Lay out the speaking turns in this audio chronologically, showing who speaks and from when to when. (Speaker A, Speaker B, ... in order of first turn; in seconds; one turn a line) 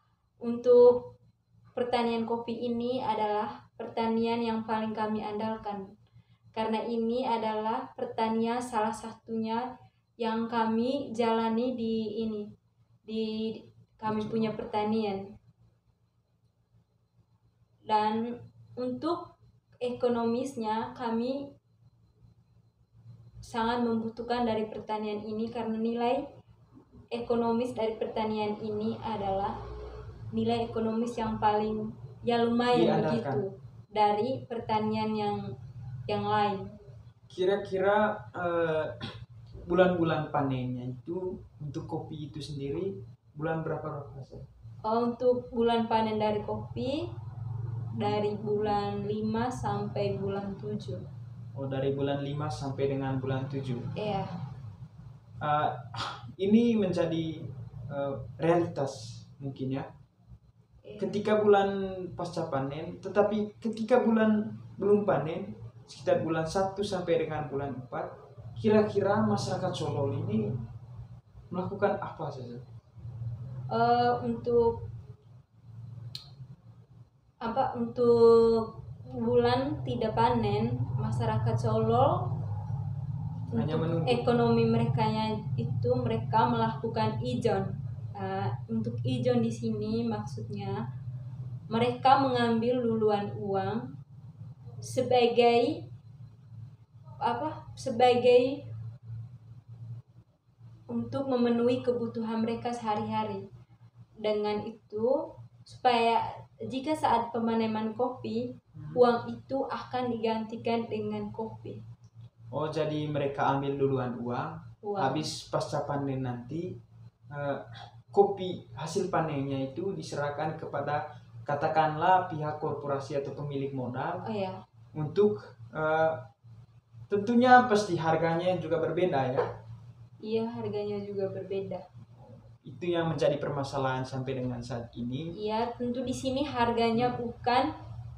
Speaker A: 0.4-1.1
Speaker A: 1.8-5.9
Speaker A: 6.5-9.7
Speaker A: 10.2-12.5
Speaker A: 13.0-15.3
Speaker B: 14.0-14.5
Speaker A: 17.9-21.6
Speaker A: 23.4-26.2
Speaker A: 27.1-29.6
Speaker A: 30.3-35.5
Speaker B: 32.7-33.4
Speaker A: 36.1-36.7
Speaker B: 37.3-38.9
Speaker B: 39.6-44.5
Speaker A: 44.8-47.1
Speaker A: 47.9-51.0
Speaker B: 51.5-53.9
Speaker A: 54.0-54.4
Speaker B: 55.4-59.9
Speaker A: 60.8-61.2
Speaker B: 61.0-70.6
Speaker B: 71.5-72.6
Speaker A: 73.7-74.8
Speaker A: 77.4-82.4
Speaker B: 83.5-84.3
Speaker A: 83.5-90.8
Speaker A: 91.7-93.9
Speaker A: 94.8-95.8
Speaker A: 97.2-98.7
Speaker A: 100.9-103.4
Speaker A: 104.2-105.1
Speaker A: 105.7-111.8
Speaker B: 108.7-109.0
Speaker B: 112.5-116.7
Speaker A: 114.8-115.2
Speaker B: 117.3-124.2
Speaker A: 124.2-124.6
Speaker B: 124.9-126.2
Speaker B: 127.1-129.5
Speaker A: 130.2-131.8
Speaker B: 132.6-135.3
Speaker A: 135.3-137.7